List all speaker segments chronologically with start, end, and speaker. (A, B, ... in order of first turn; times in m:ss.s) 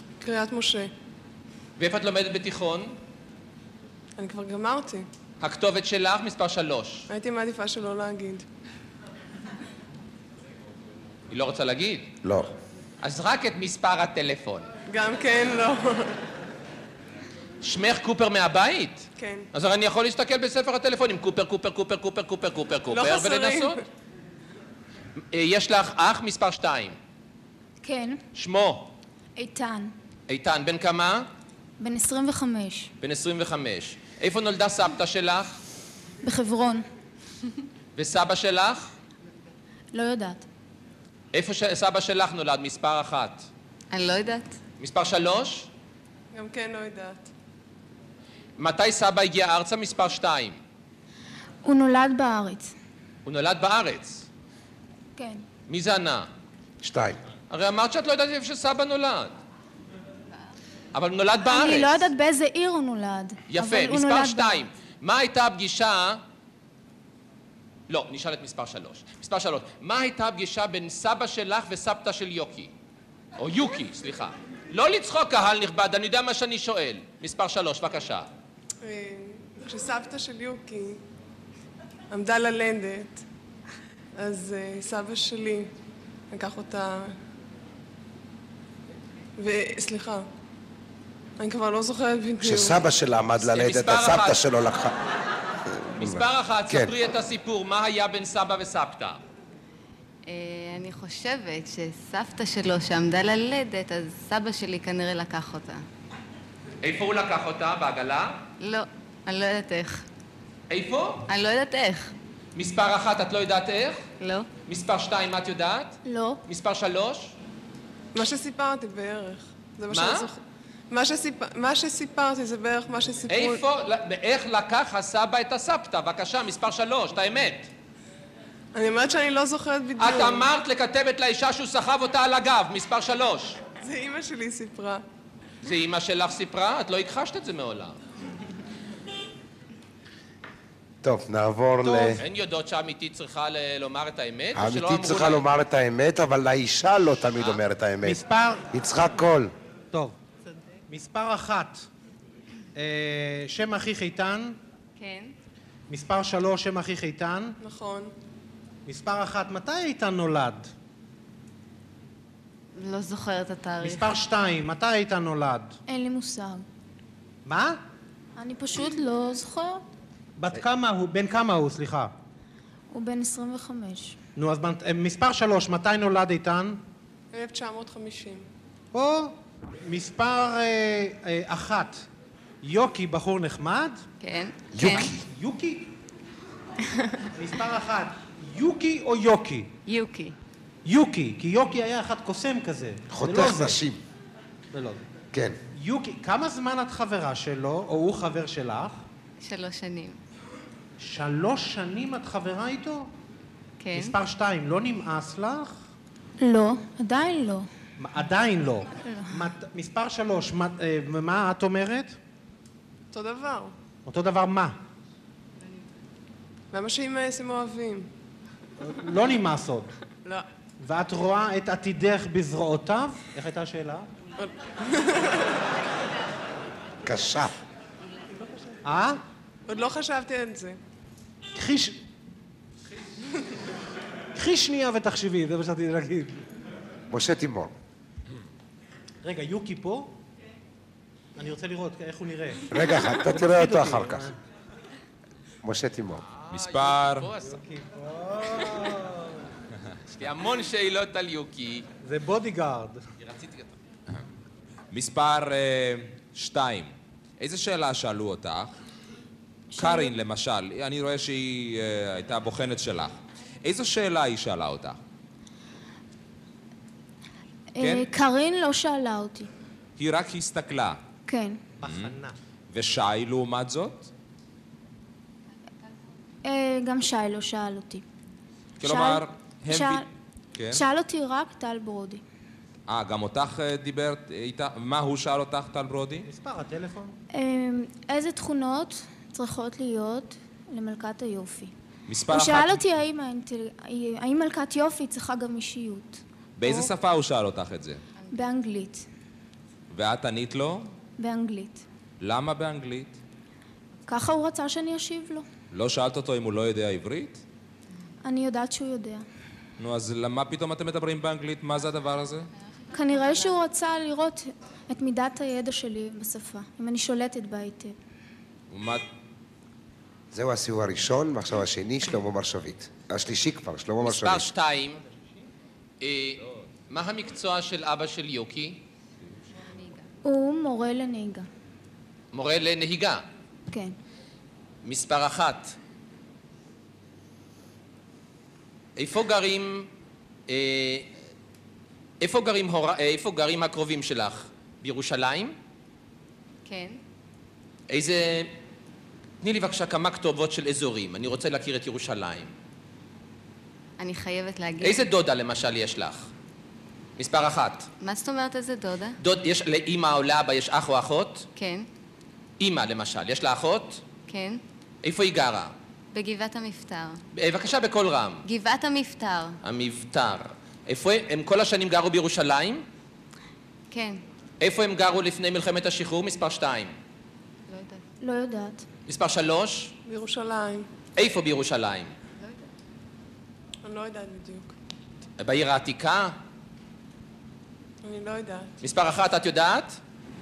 0:00.2-0:00.9 A
0:01.8-0:03.0 B
0:04.2-0:05.0 A
0:05.4-0:07.1 B
0:07.1-0:08.4 A
0:11.3-0:12.1 B
0:12.2-0:12.5 C
0:13.0-0:14.7 B
0:14.9-0:16.2 A
0:17.6-0:23.8 B
0:19.2-0:19.5 A
0:22.9-0:23.8 A
0:25.3-0:27.0 B
0:27.8-0:28.2 D
0:28.3-0:28.9 B
0:29.4-0:29.9 D
0:30.3-0:31.3 B
0:31.8-0:32.9 D
0:33.0-0:35.6 B
0:36.2-0:36.9 D
0:37.9-0:38.9 B
0:39.9-0:40.4 D
0:41.3-0:43.5 B
0:43.9-0:44.6 E
0:44.8-0:45.7 B
0:46.3-0:47.3 A
0:48.6-0:50.6 B
0:51.6-0:52.7 D
0:53.2-0:54.2 B
0:55.2-0:55.4 D
0:55.7-0:56.3 B
0:56.8-0:57.2 C
0:57.5-0:59.4 B
1:00.9-1:02.1 B
1:01.4-1:04.6 D
1:03.5-1:06.2 B
1:07.9-1:12.7 B
1:13.4-1:18.3 B
1:18.8-1:21.0 A
1:22.1-1:23.2 A
1:24.2-1:25.7 A
1:26.3-1:27.1 A
1:29.4-1:30.3 A
1:31.4-1:32.8 A
1:32.4-1:35.0 C
1:33.4-1:34.4 B
1:36.0-1:36.9 C
1:36.0-1:39.2 B
1:40.2-1:45.8 E
1:46.8-1:48.4 B
1:48.6-1:50.0 E
1:50.7-1:51.2 B
1:51.3-1:52.1 E
1:52.5-1:54.0 B
1:54.2-1:54.5 E
1:54.6-1:57.3 B
1:56.0-1:56.4 D
1:58.1-2:03.6 A
1:59.9-2:00.3 B
2:03.3-2:07.7 B
2:08.7-2:10.5 A
2:10.0-2:13.6 B
2:13.8-2:15.0 A
2:15.6-2:18.0 B
2:21.0-2:22.2 C
2:21.8-2:22.2 F
2:22.2-2:25.4 B
2:24.5-2:29.5 C
2:28.0-2:28.7 F
2:30.9-2:31.9 F
2:32.8-2:34.6 F
2:35.0-2:35.3 E
2:35.9-2:37.6 F
2:37.6-2:38.1 A
2:38.8-2:40.7 F
2:42.7-2:44.1 E
2:43.8-2:45.8 F
2:45.9-2:46.6 D
2:47.4-2:47.8 F
2:48.4-2:49.8 D
2:50.4-2:52.1 F
2:52.9-2:54.2 D
2:54.4-2:56.8 F
2:57.3-2:58.4 A
2:58.9-3:02.1 F
3:02.6-3:04.0 F
3:04.2-3:05.1 E
3:04.7-3:05.2 C
3:05.2-3:05.9 F
3:07.3-3:09.7 F
3:09.8-3:10.4 E
3:10.8-3:13.8 F
3:13.1-3:14.0 C
3:14.7-3:15.0 F
3:15.7-3:19.0 F
3:19.4-3:20.2 E
3:21.0-3:23.1 F
3:23.8-3:24.2 E
3:23.9-3:25.8 F
3:26.4-3:27.7 D
3:28.0-3:32.2 F
3:33.1-3:33.7 A
3:34.0-3:34.8 F
3:36.7-3:38.1 A
3:38.8-3:39.9 F
3:40.8-3:44.1 F
3:44.4-3:45.6 A
3:47.0-3:47.5 C
3:48.8-3:49.2 F
3:49.7-3:50.8 A
3:51.5-3:52.0 F
3:54.3-3:56.4 F
3:57.1-3:57.7 C
3:59.2-4:00.2 F
4:01.4-4:02.7 F
4:02.7-4:04.3 C
4:03.2-4:04.3 F
4:05.6-4:06.2 C
4:06.4-4:07.6 B
4:06.5-4:07.3 G
4:07.5-4:09.4 F
4:10.1-4:11.9 B
4:12.0-4:13.0 F
4:13.2-4:13.7 B
4:14.9-4:18.7 G
4:19.7-4:20.1 D
4:19.8-4:25.0 G
4:27.8-4:29.5 D
4:27.8-4:28.1 G
4:30.0-4:31.0 G
4:31.3-4:31.6 D
4:31.8-4:32.4 F
4:31.8-4:32.1 G
4:32.7-4:34.1 G
4:36.4-4:38.0 D
4:38.8-4:40.8 G
4:38.8-4:40.1 D
4:40.7-4:42.2 D
4:42.9-4:46.3 G
4:46.2-4:47.2 F
4:47.3-4:51.7 D
4:52.1-4:52.8 G
4:52.3-4:56.2 D
4:56.6-4:58.0 G
4:58.3-4:59.0 D
4:59.9-5:00.9 G
5:01.2-5:01.8 D
5:02.2-5:03.2 G
5:04.1-5:05.4 D
5:05.7-5:07.4 G
5:08.2-5:09.2 D
5:09.8-5:12.5 G
5:12.9-5:18.0 D
5:12.9-5:13.5 E
5:18.7-5:19.0 G
5:20.3-5:24.5 C
5:24.0-5:25.0 B
5:26.0-5:28.8 B
5:29.8-5:30.0 E
5:30.2-5:31.5 D
5:32.3-5:33.2 B
5:33.7-5:34.0 D
5:34.8-5:35.8 B
5:39.0-5:39.9 B
5:40.5-5:41.1 B
5:42.2-5:45.6 B
5:46.6-5:47.0 E
5:47.9-5:48.5 B
5:49.4-5:52.5 B
5:54.0-5:55.0 E
5:54.8-5:56.3 B
5:57.2-5:57.9 B
5:58.0-5:59.2 E
5:59.2-6:01.5 B
6:01.6-6:01.9 E
6:02.6-6:04.0 B
6:04.3-6:04.6 E
6:05.0-6:05.7 B
6:06.1-6:07.2 E
6:07.3-6:08.4 B
6:08.4-6:09.6 E
6:09.6-6:12.8 B
6:13.9-6:14.2 E
6:14.6-6:16.9 B
6:17.7-6:18.0 E
6:18.2-6:18.8 D
6:19.1-6:19.9 B
6:20.0-6:20.9 A
6:21.2-6:22.1 B
6:22.4-6:22.7 E
6:23.8-6:24.7 A
6:25.4-6:26.4 B
6:28.0-6:28.7 A
6:28.8-6:30.0 B